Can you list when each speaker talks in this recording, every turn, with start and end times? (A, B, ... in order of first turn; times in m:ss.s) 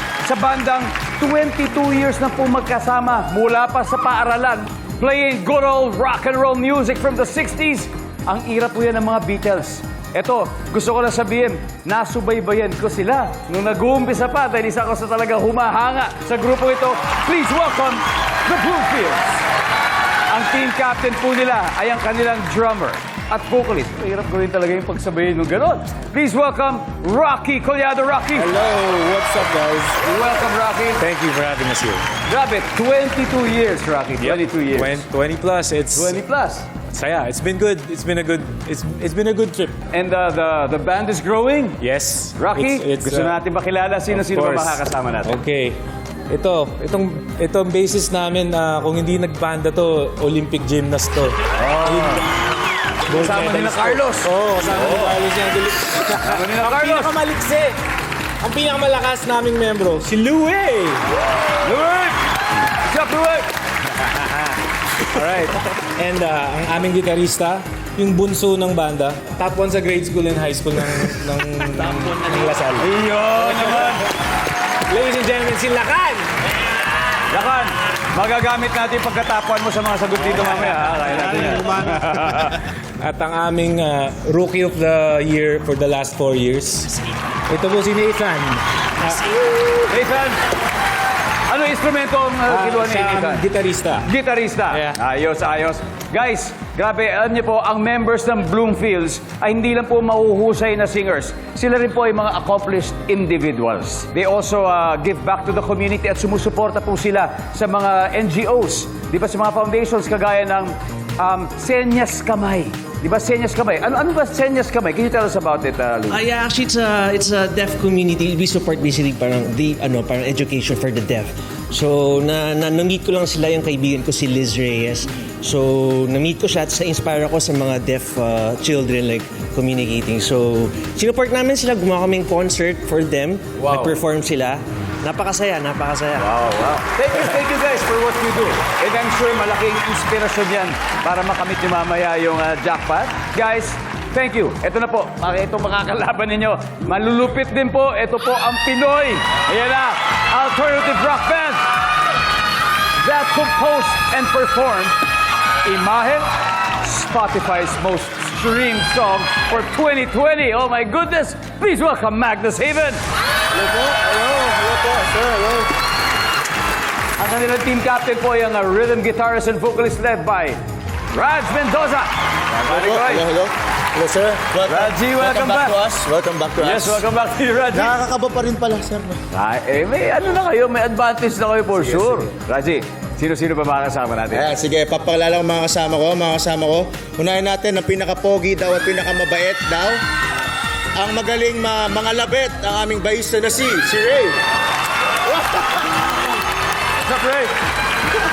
0:00.2-0:19.4 A
0:20.3-0:28.5 A
0:28.4-0:30.0 B
0:30.0-0:31.0 A
0:31.0-0:32.0 B
0:32.2-0:35.0 A
0:34.2-0:36.2 B
0:35.9-0:36.7 A
0:36.9-0:39.8 B
0:39.9-0:41.8 A
0:41.8-0:43.3 B
0:42.4-0:45.4 A
0:44.2-0:45.8 B
0:46.3-0:52.2 B
0:51.6-0:52.3 A
0:53.1-0:57.8 B
0:53.1-0:55.2 A
0:56.1-0:57.2 A
0:58.4-1:01.0 B
1:01.5-1:02.2 A
1:02.8-1:03.5 A
1:05.0-1:05.7 A
1:06.0-1:13.9 B
1:12.8-1:14.0 A
1:14.9-1:16.3 B
1:17.2-1:22.6 A
1:23.0-1:29.4 B
1:29.9-1:30.4 A
1:31.5-1:33.5 A
1:32.5-1:34.0 B
1:34.0-1:56.2 A
1:34.7-1:35.0 B
1:56.1-2:16.3 C
2:13.6-2:14.0 A
2:16.2-2:31.6 A
2:33.0-2:35.0 A
2:35.6-2:43.0 A
2:43.5-2:45.7 D
2:47.2-2:50.6 A
2:51.1-2:53.3 A
2:52.7-2:57.0 D
2:54.7-2:55.8 A
2:56.6-2:58.0 A
2:57.7-2:59.2 D
2:59.3-3:04.5 A
3:01.9-3:02.2 D
3:04.3-3:10.0 D
3:11.0-3:14.4 D
3:15.2-3:15.9 D
3:17.0-3:17.5 A